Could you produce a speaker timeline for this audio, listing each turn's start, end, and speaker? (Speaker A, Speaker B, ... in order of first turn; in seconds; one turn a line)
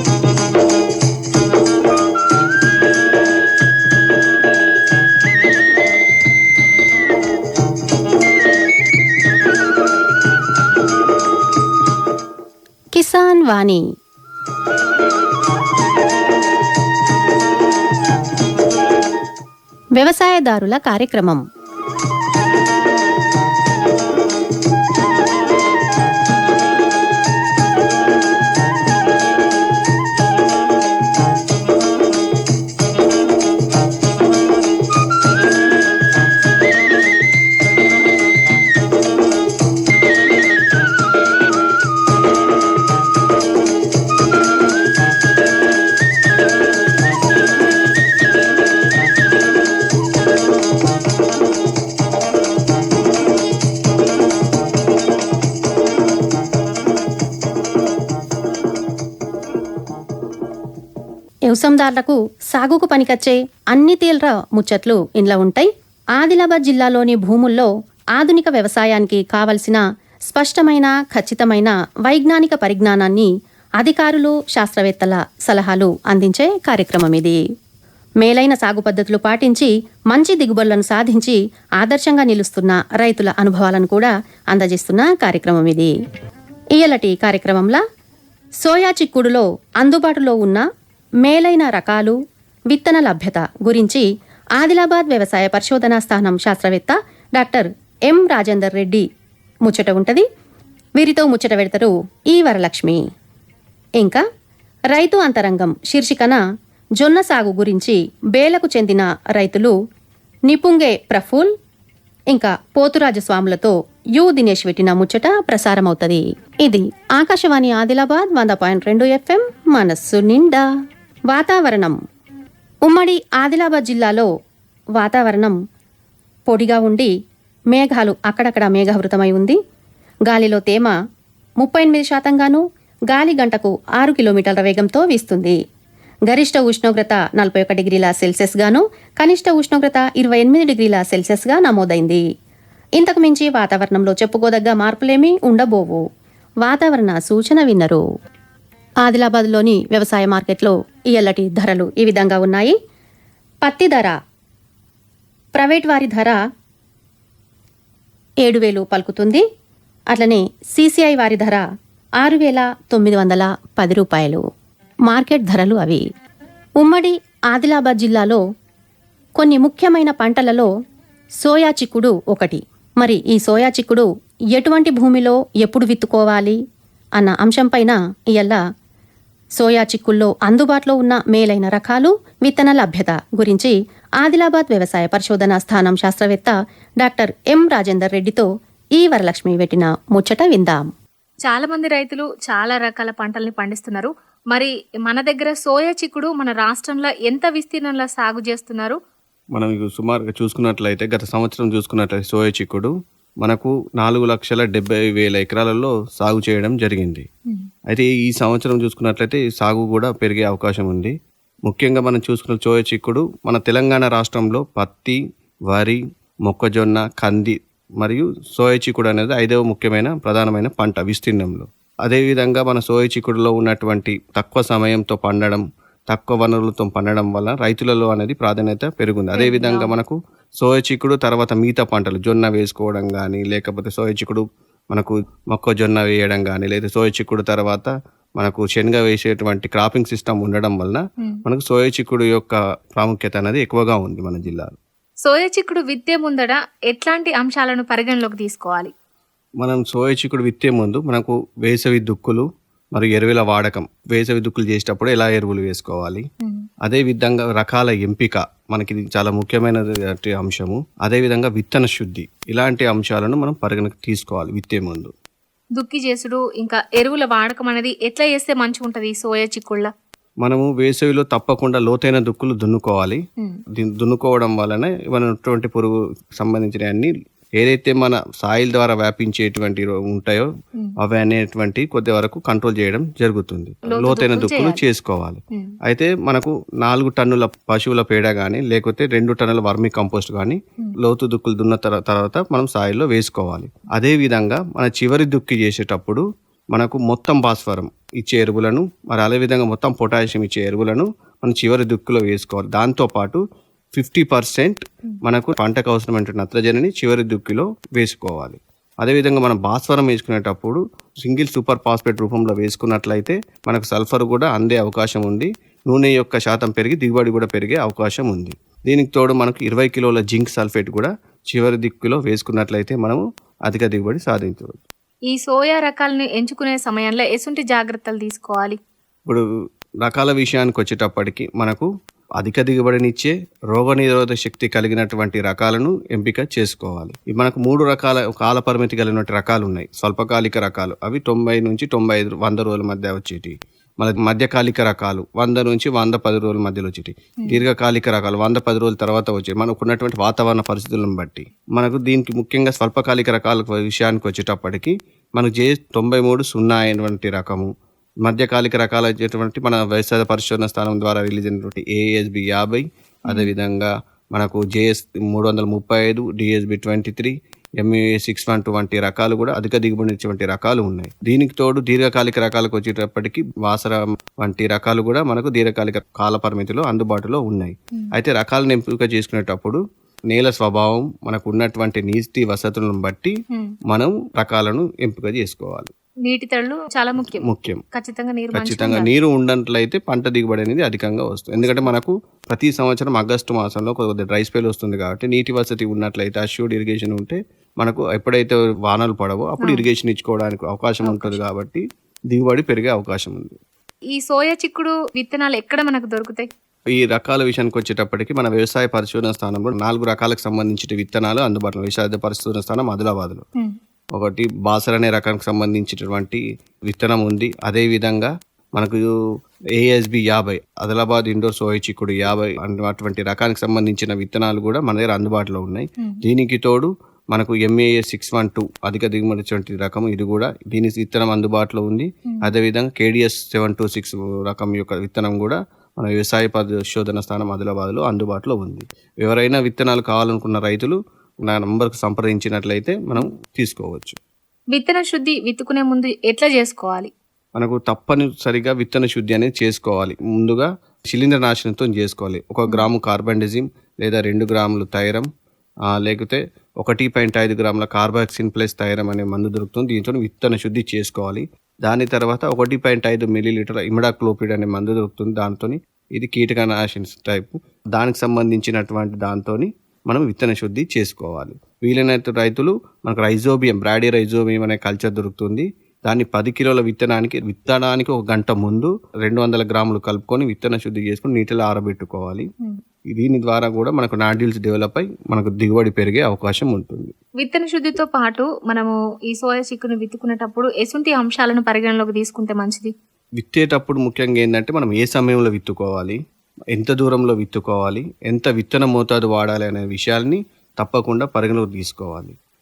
Speaker A: 13.0-13.8
Speaker A: 20.0-21.4
Speaker A: 61.5-73.3
Speaker A: 73.8-77.4
Speaker A: 78.2-85.9
Speaker A: 86.8-87.8
Speaker A: 88.6-90.6
Speaker A: 91.2-92.2
Speaker A: 92.7-94.0
Speaker A: 94.6-99.1
Speaker A: 99.7-100.3
Speaker A: 101.0-103.0
Speaker A: 104.9-106.4
Speaker A: 107.0-109.7
Speaker A: 110.5-111.5
Speaker A: 112.3-120.6
Speaker A: 121.3-122.0
Speaker A: 122.9-124.3
Speaker A: 125.0-125.6
Speaker A: 126.5-127.1
Speaker A: 127.7-129.6
Speaker A: 130.3-130.9
Speaker A: 131.6-135.6
Speaker A: 136.3-142.2
Speaker A: 143.0-146.0
Speaker A: 146.7-148.0
Speaker A: 149.1-152.8
Speaker A: 153.7-154.2
Speaker A: 155.6-156.4
Speaker A: 158.4-159.4
Speaker A: 160.1-161.6
Speaker A: 162.2-164.4
Speaker A: 165.1-166.0
Speaker A: 166.8-168.4
Speaker A: 169.4-170.7
Speaker A: 171.4-176.6
Speaker A: 177.2-178.6
Speaker A: 179.6-190.9
Speaker B: 191.5-199.0
Speaker C: 199.6-207.3
Speaker C: 207.9-211.2
Speaker C: 211.7-215.2
Speaker C: 215.7-244.8
Speaker B: 229.3-229.9
Speaker B: 245.2-248.9
Speaker C: 249.6-256.3
Speaker C: 256.8-265.1
Speaker B: 265.8-269.9
Speaker C: 270.4-273.2
Speaker C: 273.8-280.5
Speaker C: 281.0-303.4
Speaker B: 283.9-284.8
Speaker C: 304.0-324.8
Speaker B: 325.3-328.8
Speaker C: 330.0-357.7
Speaker C: 358.2-383.4
Speaker C: 383.9-385.9
Speaker B: 386.3-389.1
Speaker C: 387.2-387.8
Speaker C: 388.5-403.6
Speaker B: 399.6-399.9
Speaker B: 401.0-401.4
Speaker B: 404.1-406.5
Speaker C: 406.9-413.4
Speaker C: 414.1-419.1
Speaker C: 419.8-444.2
Speaker B: 444.7-447.1
Speaker C: 447.6-455.3
Speaker C: 456.0-482.5
Speaker C: 483.1-487.1
Speaker B: 487.4-492.9
Speaker C: 493.4-496.2
Speaker C: 496.7-502.4